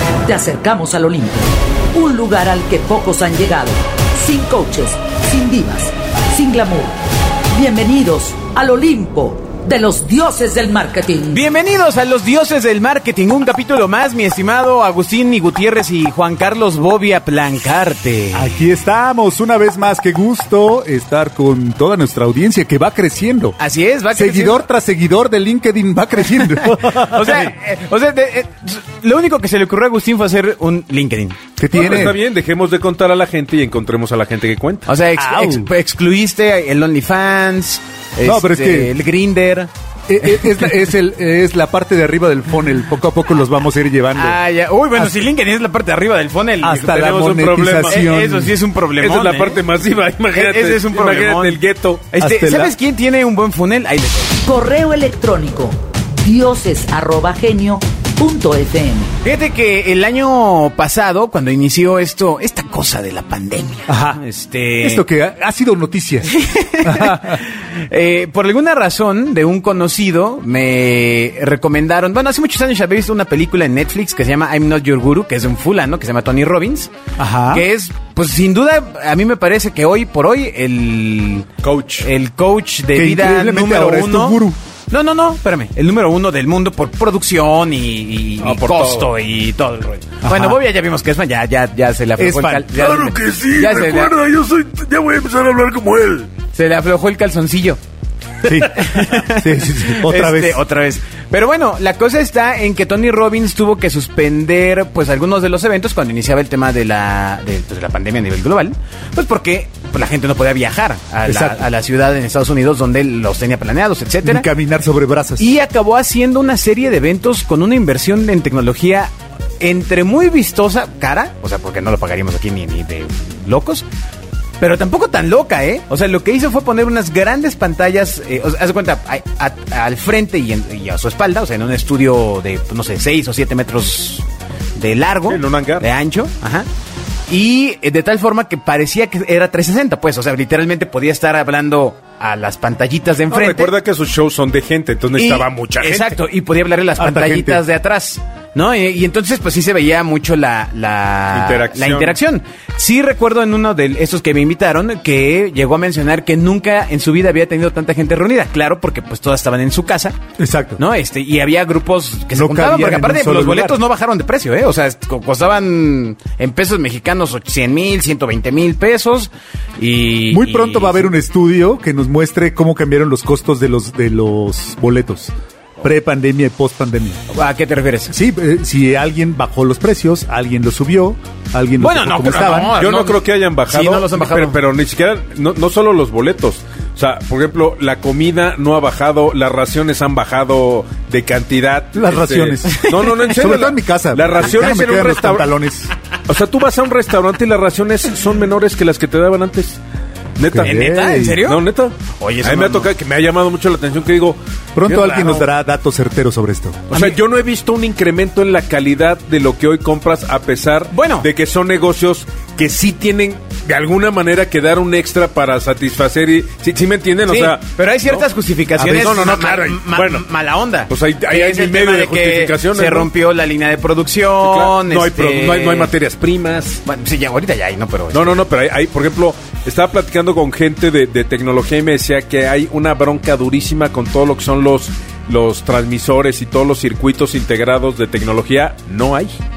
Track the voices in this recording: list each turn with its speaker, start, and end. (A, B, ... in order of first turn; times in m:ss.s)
0:00.2-0:07.0 A
0:07.5-0:11.4 A
0:11.3-0:18.5 B
0:18.3-0:23.6 C
0:23.6-0:24.6 B
0:24.1-0:27.5 C
0:26.3-0:31.4 B
0:31.6-0:32.2 C
0:31.7-0:34.9 D
0:34.9-0:39.7 B
0:35.2-0:35.7 C
0:38.2-0:38.9 C
0:40.1-0:44.4 C
0:40.2-0:40.7 B
0:44.2-0:47.0 B
0:46.6-0:48.5 C
0:46.8-0:48.0 D
0:47.8-0:49.6 B
0:49.0-0:52.1 D
0:50.3-0:54.4 B
0:52.2-0:52.7 C
0:54.4-0:59.1 A
0:59.2-1:05.0 B
1:03.9-1:04.2 C
1:04.8-1:07.4 C
1:06.2-1:16.9 B
1:17.2-1:17.6 C
1:17.5-1:34.2 B
1:21.6-1:22.1 D
1:22.9-1:24.6 C
1:28.4-1:29.1 D
1:30.2-1:30.6 C
1:32.2-1:33.0 C
1:32.7-1:36.3 D
1:36.5-1:37.8 B
1:38.4-1:40.6 C
1:38.4-1:54.4 B
1:51.2-1:51.6 C
1:54.2-1:55.5 C
1:55.4-2:03.8 B
2:04.6-2:14.2 B
2:14.8-2:16.7 B
2:15.3-2:15.8 D
2:17.3-2:23.7 B
2:23.3-2:26.2 D
2:25.2-2:40.2 B
2:27.0-2:27.6 C
2:31.3-2:32.2 D
2:40.4-2:40.8 C
2:40.8-2:51.1 B
2:42.3-2:43.8 C
2:50.3-2:57.2 C
2:57.3-2:58.1 B
2:58.1-3:02.8 C
3:01.8-3:04.6 B
3:02.3-3:15.5 D
3:11.9-3:15.9 C
3:12.7-3:13.3 B
3:16.2-3:19.8 D
3:20.4-3:25.4 D
3:20.4-3:21.4 C
3:20.6-3:22.9 B
3:24.7-3:26.9 C
3:26.9-3:38.2 D
3:26.9-3:27.2 B
3:30.9-3:31.3 B
3:37.3-3:45.9 B
3:38.8-3:40.2 D
3:40.9-3:43.1 D
3:44.4-3:46.8 D
3:46.8-3:48.4 B
3:48.1-3:59.4 D